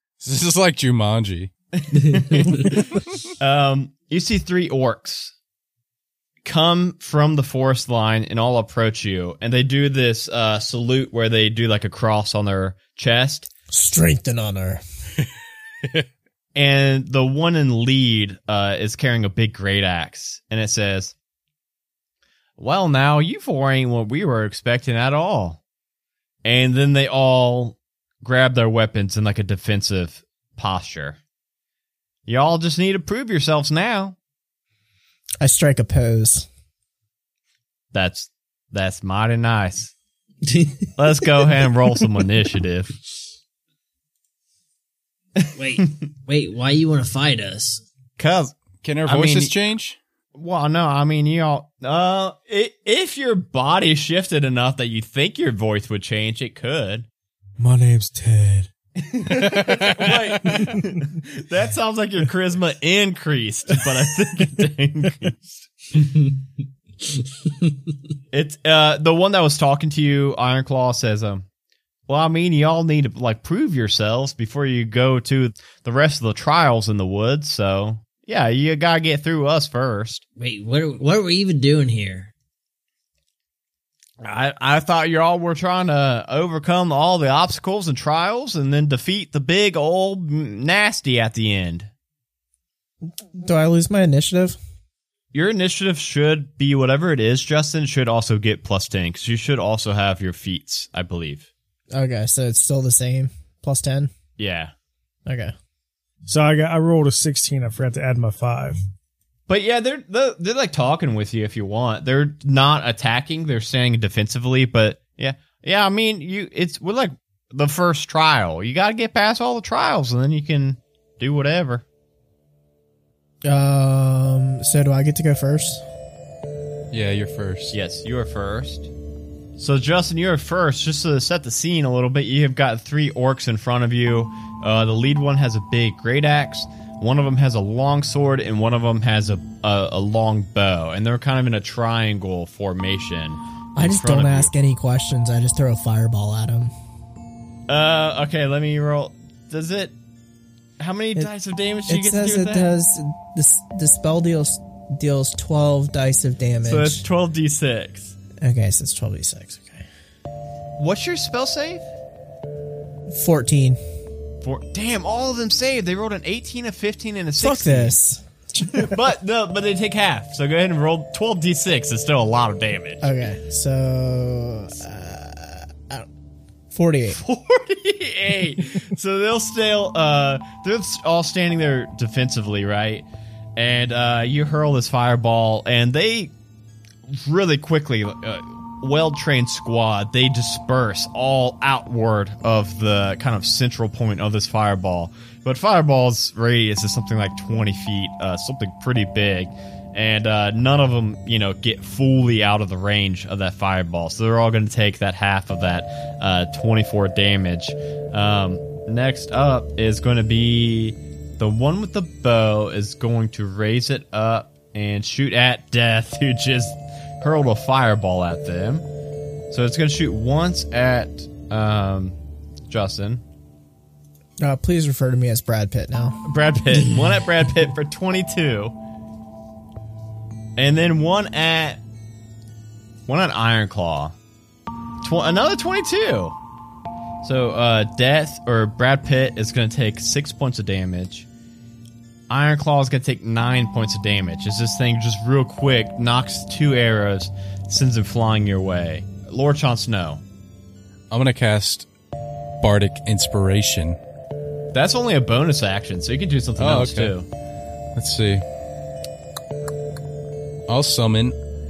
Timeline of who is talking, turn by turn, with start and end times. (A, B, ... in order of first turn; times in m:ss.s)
0:00.2-0:01.5 A
0:01.7-0:05.3 B
0:02.0-0:02.7 C
0:06.4-0:13.5 B
0:13.7-0:14.8 D
0:16.5-0:21.1 B
0:22.6-0:25.6 B
0:26.4-0:31.2 B
0:32.2-0:34.2 B
0:35.4-0:36.5 D
0:37.9-0:39.9 B
0:40.4-0:40.9 C
0:41.0-0:43.0 B
0:45.6-0:47.8 C
0:48.2-0:49.5 B
0:48.8-0:50.0 A
0:50.4-0:57.1 B
0:57.6-0:58.7 E
0:59.0-1:05.6 B
0:59.3-1:00.4 A
1:08.3-1:11.4 B
1:12.1-1:20.2 B
1:20.4-1:22.3 C
1:24.2-1:31.9 B
1:33.2-1:34.6 D
1:35.3-1:41.5 B
1:41.9-1:44.1 D
1:44.4-1:44.7 B
1:45.2-1:45.5 D
1:46.2-1:48.8 E
1:49.5-2:01.8 B
2:03.4-2:05.8 D
2:06.9-2:07.7 A
2:07.7-2:08.9 B
2:09.6-2:24.5 B
2:23.8-2:26.7 D
2:27.7-2:30.0 B
2:30.8-2:32.7 B
2:31.9-2:37.0 D
2:36.6-2:38.2 B
2:38.4-2:39.8 D
2:40.8-2:41.9 B
2:43.1-2:43.8 D
2:44.4-2:48.0 B
2:47.4-2:48.3 D
2:48.6-2:53.0 B
2:53.0-2:56.1 D
2:56.7-2:57.2 D
2:57.1-3:03.0 B
3:03.6-3:06.3 B
3:07.1-3:38.8 B
3:39.5-3:42.2 B
3:42.7-3:43.2 B
3:44.4-3:46.2 D
3:46.2-3:48.7 B
3:50.6-3:51.8 B
3:53.1-3:54.1 B
3:55.0-3:56.4 B
3:57.2-4:01.3 B
4:02.3-4:10.2 B
4:11.1-4:11.9 A
4:12.6-4:14.0 A
4:14.7-4:17.3 B
4:16.6-4:17.1 A
4:17.9-4:18.4 A
4:20.7-4:21.4 A